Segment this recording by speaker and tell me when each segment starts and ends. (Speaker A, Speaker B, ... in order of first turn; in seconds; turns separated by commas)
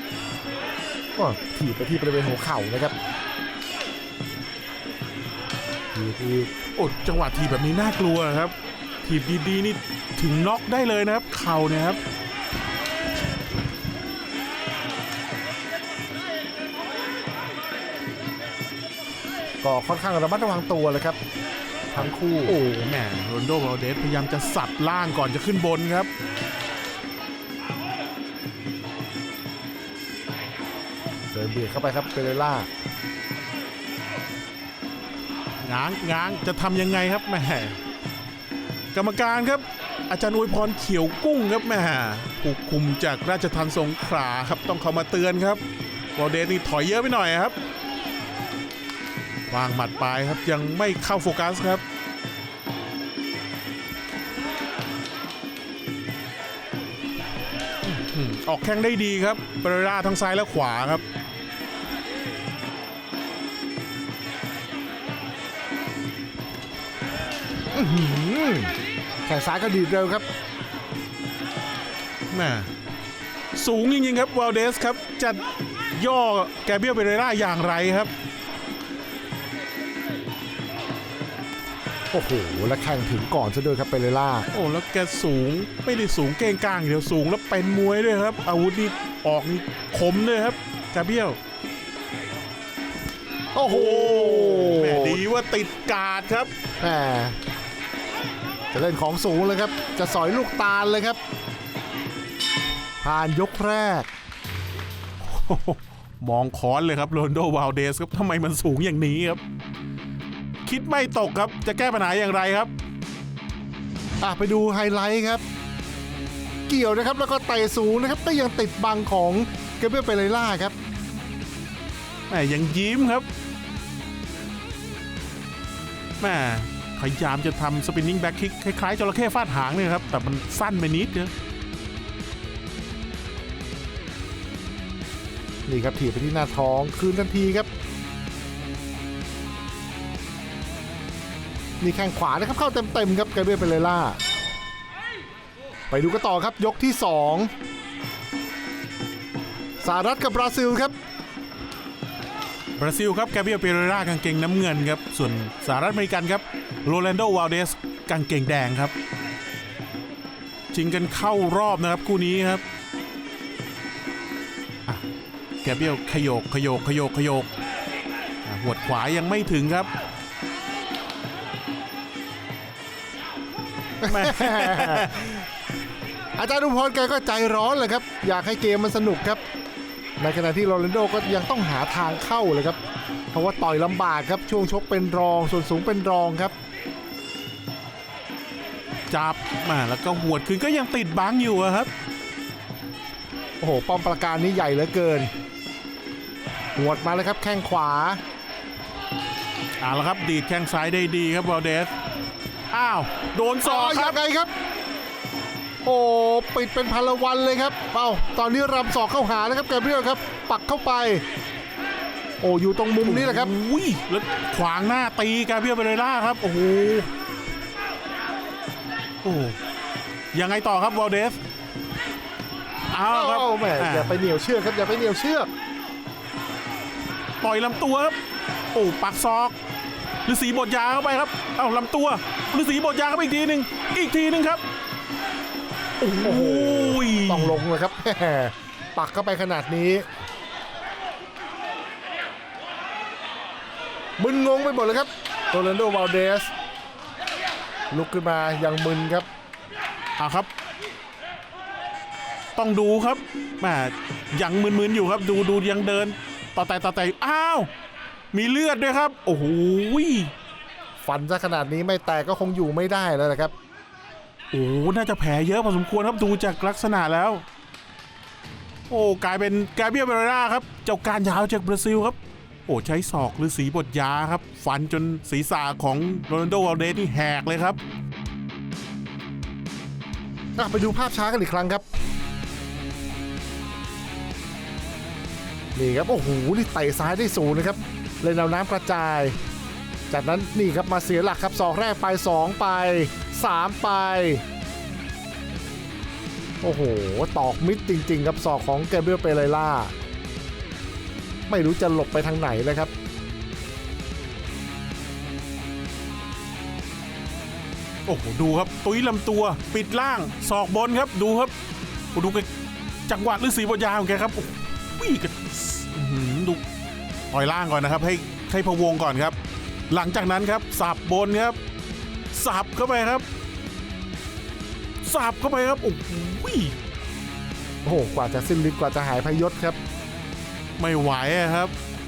Speaker A: 1.2-3.0, Speaker A: 5.9-6.5, Speaker B: 6.8-12.0, Speaker A: 19.6-21.2, Speaker A: 21.9-22.6, Speaker B: 21.9-26.1, Speaker A: 31.3-32.7, Speaker B: 35.6-37.8, Speaker B: 38.9-45.6, Speaker B: 46.2-47.5, Speaker B: 49.5-51.8, Speaker B: 57.8-61.0, Speaker A: 67.7-70.3, Speaker B: 72.3-72.7, Speaker B: 73.5-75.4, Speaker B: 75.9-78.1, Speaker A: 82.1-84.5, Speaker B: 84.5-91.4, Speaker A: 93.5-95.2, Speaker B: 93.6-96.5, Speaker A: 96.8-97.4, Speaker A: 98.7-101.2, Speaker A: 103.0-104.1, Speaker B: 105.2-109.4, Speaker B: 110.7-112.7, Speaker A: 114.2-115.4, Speaker A: 116.7-120.8, Speaker B: 122.3-123.2, Speaker B: 126.2-131.3, Speaker A: 135.7-137.7, Speaker A: 141.8-144.2, Speaker A: 145.9-147.5, Speaker A: 149.8-150.9, Speaker B: 152.8-158.9, Speaker B: 160.7-162.6, Speaker B: 165.6-167.5, Speaker B: 168.4-169.9, Speaker A: 174.0-175.1, Speaker B: 174.1-175.3, Speaker A: 176.4-179.4, Speaker A: 180.2-182.8, Speaker A: 183.3-186.6, Speaker B: 189.1-191.9, Speaker A: 193.6-195.3, Speaker A: 196.8-198.2, Speaker B: 199.8-201.9, Speaker B: 202.7-204.2, Speaker A: 203.6-204.5, Speaker A: 205.8-211.2, Speaker A: 212.4-213.5, Speaker B: 213.0-217.1, Speaker B: 219.2-219.6, Speaker B: 220.3-221.4, Speaker B: 222.9-224.2, Speaker A: 223.1-225.5, Speaker B: 227.4-228.2, Speaker B: 228.7-229.6, Speaker B: 230.2-234.6, Speaker B: 236.0-237.7, Speaker A: 236.2-240.1, Speaker A: 244.2-246.5, Speaker A: 247.9-249.3, Speaker B: 250.2-250.5, Speaker B: 252.6-257.7, Speaker B: 258.3-260.3, Speaker A: 261.0-263.5, Speaker B: 264.5-267.4, Speaker B: 268.9-277.8, Speaker A: 280.6-281.9, Speaker A: 285.8-289.4, Speaker A: 290.1-294.4, Speaker A: 296.6-299.9, Speaker A: 301.5-302.9, Speaker B: 308.1-311.5, Speaker B: 312.1-312.5, Speaker B: 313.1-316.6, Speaker B: 317.3-319.4, Speaker B: 319.9-321.6, Speaker B: 322.3-323.2, Speaker B: 325.0-326.8, Speaker A: 327.9-329.8, Speaker B: 330.8-331.7